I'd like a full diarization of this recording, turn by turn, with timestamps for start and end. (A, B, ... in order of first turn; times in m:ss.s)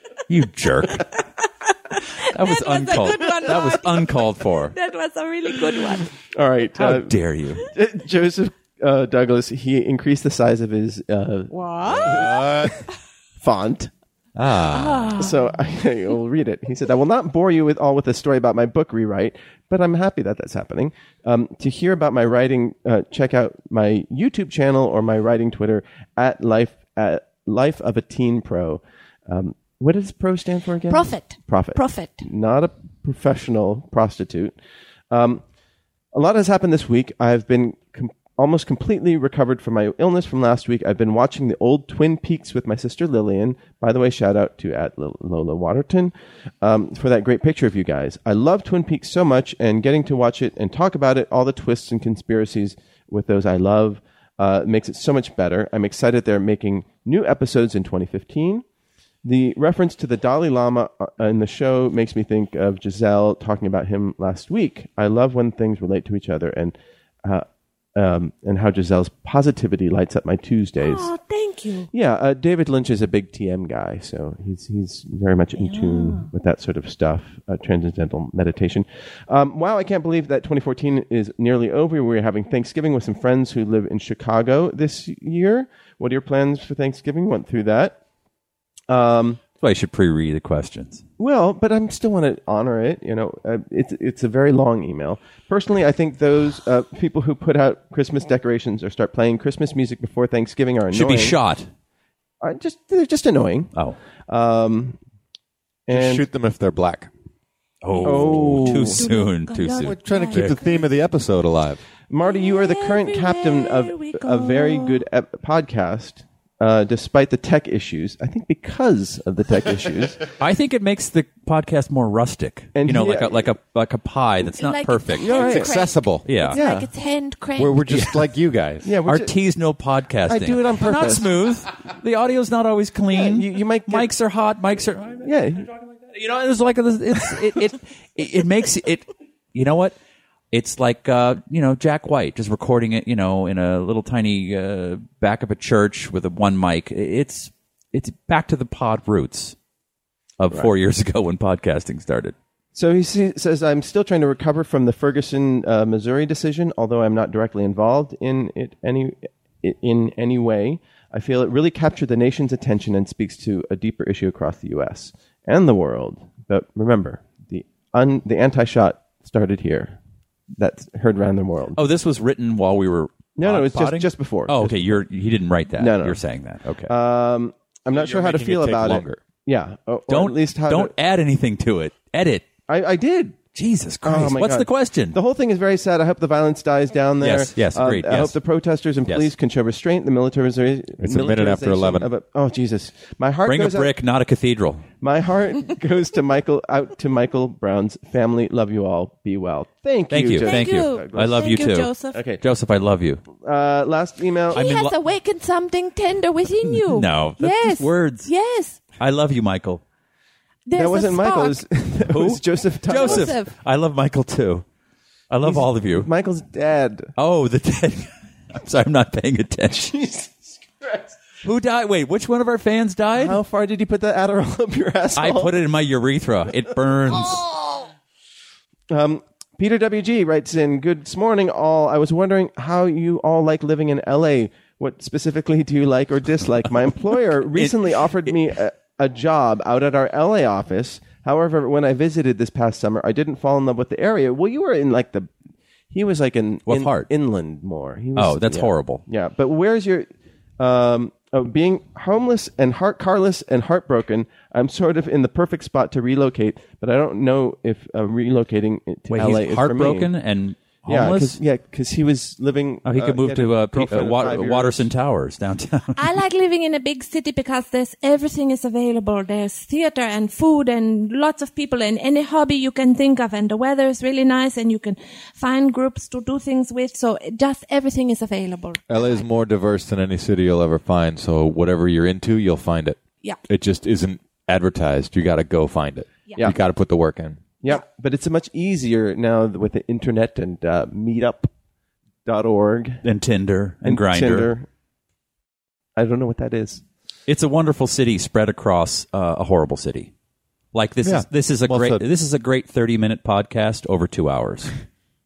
0:00.3-0:01.1 A
0:01.9-0:06.1 B
0:02.2-0:04.7 A
0:06.3-0:07.1 C
0:06.8-0:07.6 A
0:07.6-0:12.8 C
0:11.5-0:12.4 B
0:11.9-0:12.7 D
0:13.4-0:13.9 C
0:14.4-0:15.1 D
0:14.7-0:15.3 B
0:15.1-0:34.6 C
0:30.9-0:32.2 B
0:35.1-0:35.4 C
0:36.1-0:58.6 C
0:59.2-1:11.1 C
1:10.8-1:11.9 B
1:11.9-1:28.0 C
1:15.6-1:16.3 B
1:28.9-1:29.4 C
1:29.6-1:31.0 A
1:31.2-1:41.4 C
1:40.9-1:41.7 A
1:42.4-1:43.7 C
1:44.3-1:45.0 C
1:45.9-1:46.2 C
1:45.9-1:47.1 D
1:47.8-1:50.6 A
1:47.9-1:50.8 B
1:48.0-1:49.0 C
1:49.8-1:51.8 D
1:52.1-2:00.3 C
1:52.2-1:55.0 B
2:00.4-2:05.4 A
2:02.8-2:03.5 C
2:04.5-2:08.0 B
2:05.2-2:05.7 C
2:05.3-2:06.3 D
2:06.2-2:06.6 A
2:06.5-2:06.9 C
2:07.6-2:08.9 D
2:08.8-2:09.3 C
2:09.1-2:20.0 A
2:10.3-2:11.3 C
2:13.1-2:14.1 C
2:15.2-2:15.7 C
2:20.5-2:29.6 A
2:30.4-2:32.4 A
2:32.7-2:50.0 C
2:50.6-2:51.8 C
2:51.8-2:56.9 A
2:53.4-2:55.0 C
2:55.7-2:56.2 C
2:56.9-3:00.9 C
2:57.9-2:59.2 D
3:00.1-3:02.5 A
3:02.7-3:03.4 C
3:03.6-3:05.2 A
3:04.0-3:13.9 C
3:07.2-3:08.4 A
3:11.0-3:12.1 D
3:13.4-3:14.8 A
3:15.0-3:21.6 C
3:20.1-3:23.2 A
3:20.4-3:22.2 B
3:22.1-3:22.4 C
3:23.4-3:24.6 C
3:24.5-3:28.8 B
3:24.5-3:24.9 A
3:26.6-3:28.3 A
3:29.0-3:29.8 A
3:30.6-3:31.6 B
3:30.7-3:33.3 C
3:32.1-3:34.6 A
3:32.9-3:33.5 B
3:35.3-3:36.1 A
3:35.4-3:37.1 C
3:37.2-3:40.0 A
3:39.9-3:41.1 C
3:41.4-3:43.4 A
3:43.2-3:45.5 C
3:45.2-3:47.4 A
3:47.1-3:47.8 C
3:48.9-4:05.3 C
3:57.6-3:58.3 A
4:05.9-4:10.1 C
4:06.7-4:07.1 A
4:08.2-4:09.0 A
4:10.6-4:20.1 C
4:19.1-4:21.4 A
4:20.9-4:24.8 C
4:22.8-4:26.0 A
4:26.0-4:39.2 B
4:38.9-4:47.4 D
4:47.6-4:51.5 C
4:52.3-4:53.0 C
4:53.0-4:54.5 A
4:53.8-4:54.7 C
4:56.0-4:56.8 C
4:57.3-5:00.1 A
5:00.7-5:04.7 A
5:01.0-5:02.0 D